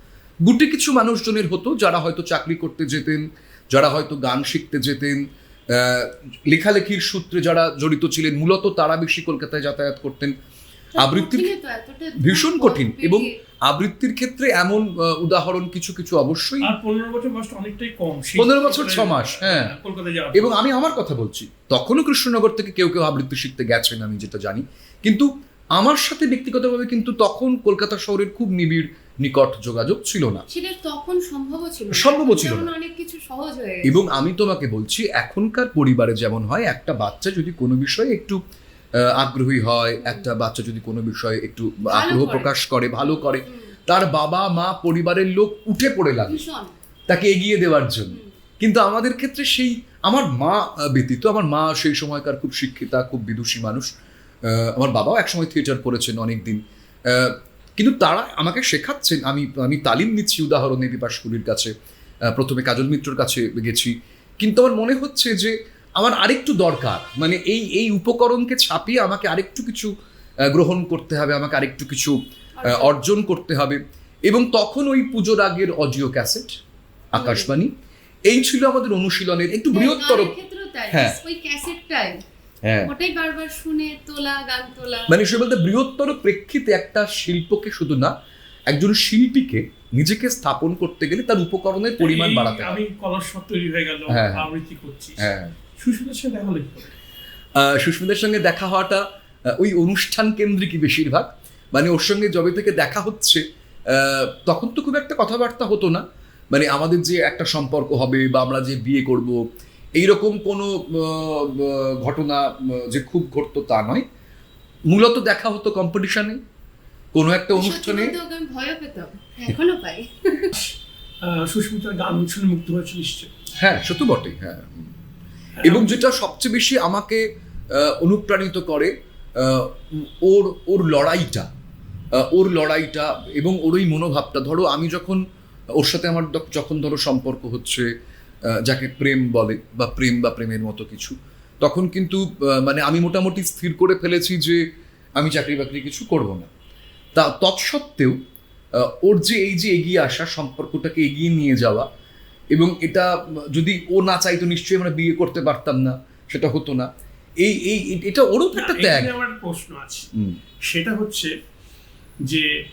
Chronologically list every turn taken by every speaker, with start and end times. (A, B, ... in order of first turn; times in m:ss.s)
0:00.4-0:10.4 A
0:11.0-0:11.5 A
0:11.0-0:13.3 B
0:12.2-0:16.7 A
0:16.6-0:20.6 C
0:18.4-0:19.7 A
0:20.3-0:30.4 A
0:30.5-0:34.0 B
0:31.9-0:32.7 A
0:33.8-0:38.4 A
0:39.0-0:46.4 A
0:41.9-0:42.5 B
0:43.5-0:43.8 B
0:46.3-0:46.7 B
0:47.1-0:53.9 A
0:54.5-1:01.7 A
1:02.3-1:09.9 A
1:10.5-1:16.5 A
1:12.6-1:12.9 B
1:17.1-1:17.7 A
1:17.2-1:17.5 B
1:18.3-1:20.3 A
1:19.7-1:22.2 B
1:20.9-1:21.2 A
1:22.6-1:22.9 A
1:22.8-1:25.1 B
1:25.1-1:28.1 A
1:28.7-1:32.8 A
1:32.0-1:37.0 C
1:34.1-1:34.5 A
1:35.2-1:35.6 A
1:37.6-1:49.4 A
1:50.0-1:54.0 A
1:54.9-1:56.4 A
1:57.1-1:58.1 A
1:57.6-2:00.5 B
2:00.5-2:03.3 C
2:03.6-2:04.9 A
2:05.6-2:06.0 C
2:05.6-2:11.5 A
2:12.1-2:15.2 A
2:15.8-2:17.9 A
2:18.6-2:24.6 A
2:25.2-2:26.5 A
2:27.1-2:28.2 A
2:28.8-2:31.9 A
2:32.5-2:39.1 A
2:38.6-2:40.1 C
2:40.1-2:40.4 A
2:40.6-2:41.3 C
2:42.2-2:42.5 C